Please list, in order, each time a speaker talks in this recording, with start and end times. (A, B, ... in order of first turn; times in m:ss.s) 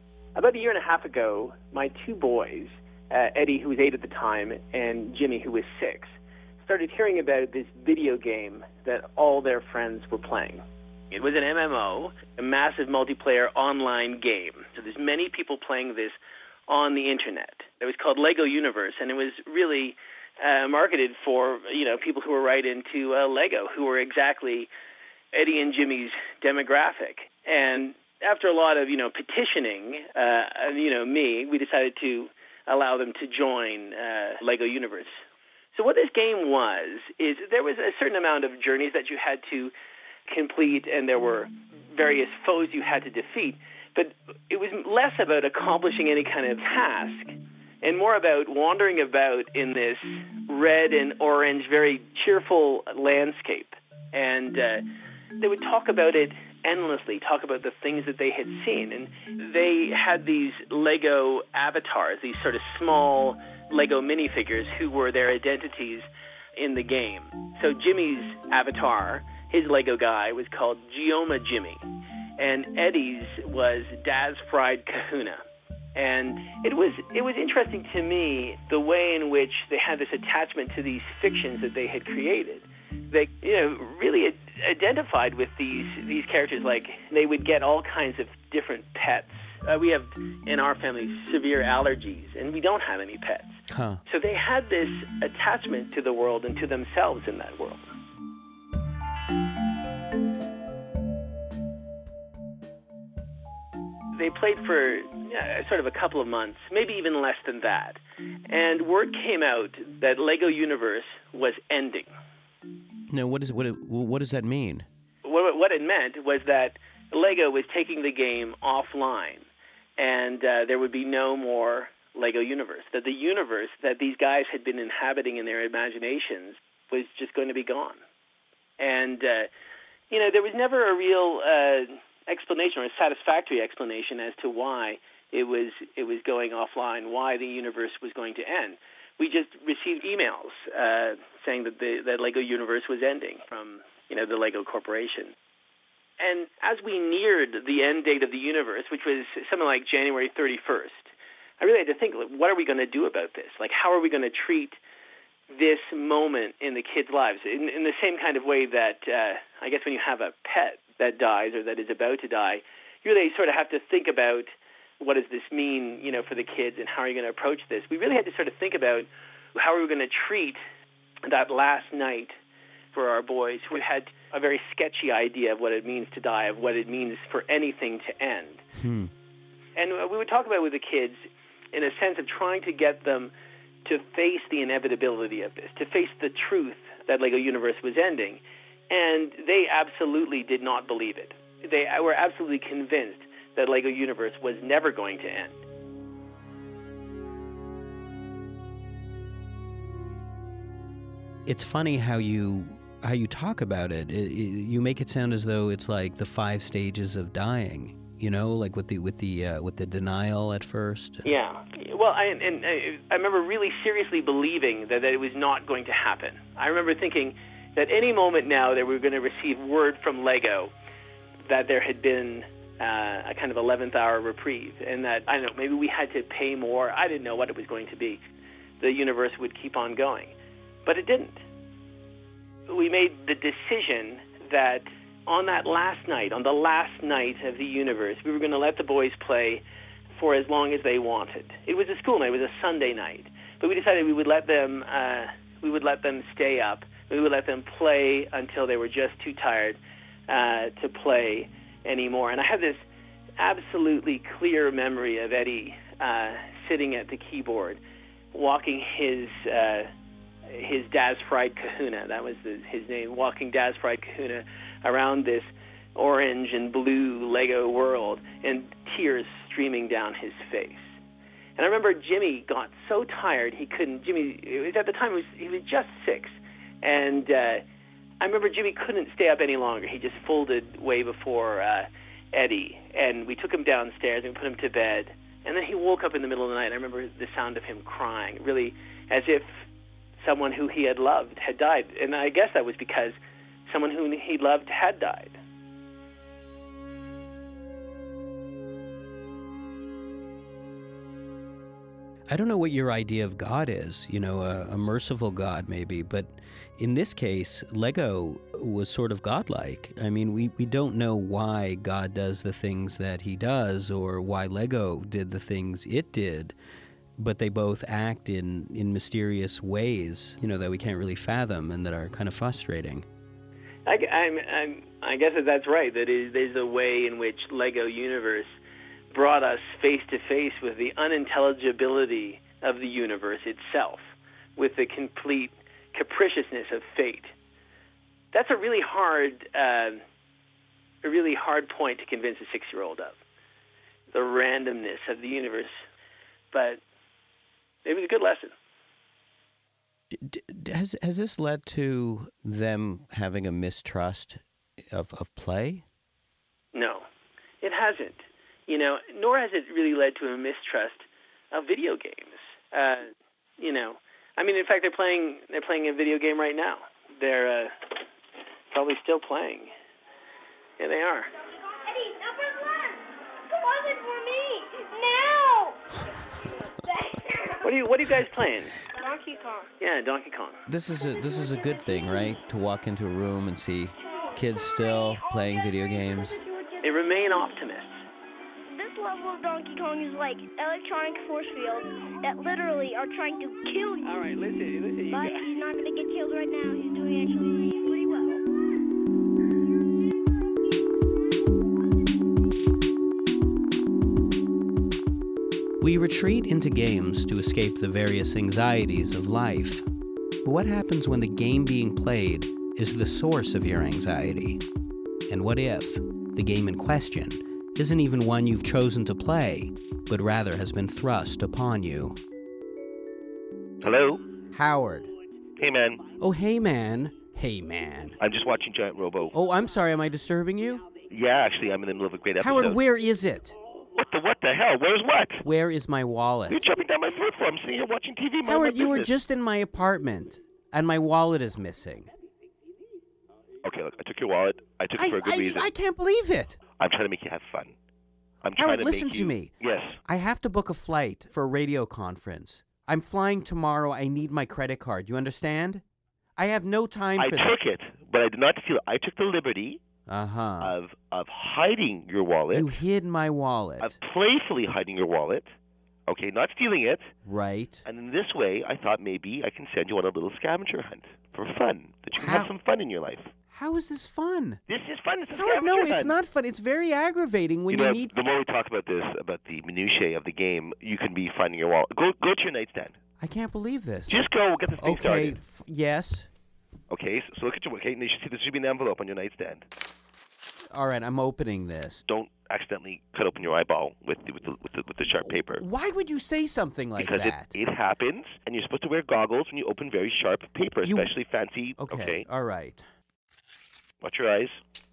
0:00.3-0:24.7 A
0:25.3-0:35.2 A
0:35.7-0:39.7 A
0:40.3-0:54.8 A
0:55.4-1:11.8 A
1:12.4-1:15.4 A
1:15.9-1:37.9 A
1:33.7-1:34.0 B
1:44.1-1:52.1 A
1:53.1-1:54.8 B
1:55.2-2:08.0 A
2:08.8-2:09.5 A
2:10.1-2:25.3 A
2:26.2-2:34.8 A
2:35.5-2:50.6 A
2:51.2-2:52.4 A
2:52.9-2:58.6 A
2:58.8-2:59.1 B
2:59.8-3:03.3 A
3:03.8-3:15.6 A
3:21.4-3:31.3 B
3:31.2-3:40.7 A
3:41.4-3:48.2 A
3:48.8-3:50.3 A
3:50.8-3:51.4 A
3:52.7-4:12.8 A
4:13.4-4:17.8 A
4:18.3-4:19.9 A
4:20.4-4:31.0 A
4:31.6-4:37.6 A
4:38.2-4:49.6 A
4:50.2-4:55.4 A
5:02.3-5:16.5 B
5:17.2-5:23.0 B
5:23.8-5:28.6 A
5:29.1-5:37.3 A
5:38.3-5:40.0 A
5:41.0-5:43.2 A
5:44.1-5:45.8 A
5:46.5-5:46.8 A
5:47.8-5:48.5 A
5:50.1-5:55.8 B
5:56.7-5:57.0 A
5:57.6-6:08.0 A
6:08.7-6:09.7 A
6:10.8-6:11.3 A
6:11.4-6:15.9 C
6:16.8-6:17.6 C
6:17.6-6:18.8 A
6:18.9-6:19.7 C
6:19.8-6:20.6 A
6:20.7-6:26.4 B
6:24.0-6:24.4 C
6:26.4-6:27.5 C
6:26.8-6:28.0 A
6:28.7-6:34.1 C
6:34.0-6:35.4 A
6:35.1-6:38.4 C
6:45.8-6:49.8 B
6:50.4-6:54.6 B
6:55.3-7:02.2 B
7:03.8-7:04.2 D
7:04.5-7:05.1 B
7:05.6-7:06.0 D
7:06.2-7:08.2 B
7:08.2-7:09.3 D
7:09.3-7:10.8 B
7:11.1-7:12.8 D
7:12.4-7:13.5 B
7:13.9-7:15.4 D
7:15.4-7:16.6 B
7:16.5-7:19.1 D
7:18.4-7:22.1 B
7:23.6-7:25.7 D
7:25.0-7:26.6 B
7:26.8-7:27.7 D
7:28.4-7:30.0 D
7:28.6-7:29.5 B
7:30.0-7:35.8 B
7:36.4-7:37.6 B
7:37.2-7:39.8 D
7:40.1-7:40.7 B
7:40.6-7:42.8 D
7:42.5-7:43.9 B
7:43.8-7:45.5 D
7:46.1-7:47.1 D
7:47.2-7:47.8 B
7:47.8-7:53.3 D
7:52.1-7:52.5 B
7:53.5-7:54.6 B
7:54.7-7:56.2 D
7:55.3-7:58.1 B
7:57.7-8:03.0 D
8:03.2-8:04.2 B
8:04.1-8:05.4 D
8:04.8-8:06.3 B
8:06.9-8:09.7 D
8:10.7-8:12.0 B
8:12.0-8:15.6 D
8:15.1-8:17.5 B
8:17.0-8:22.2 D
8:20.8-8:21.1 B
8:21.8-8:22.8 B
8:24.0-8:24.6 D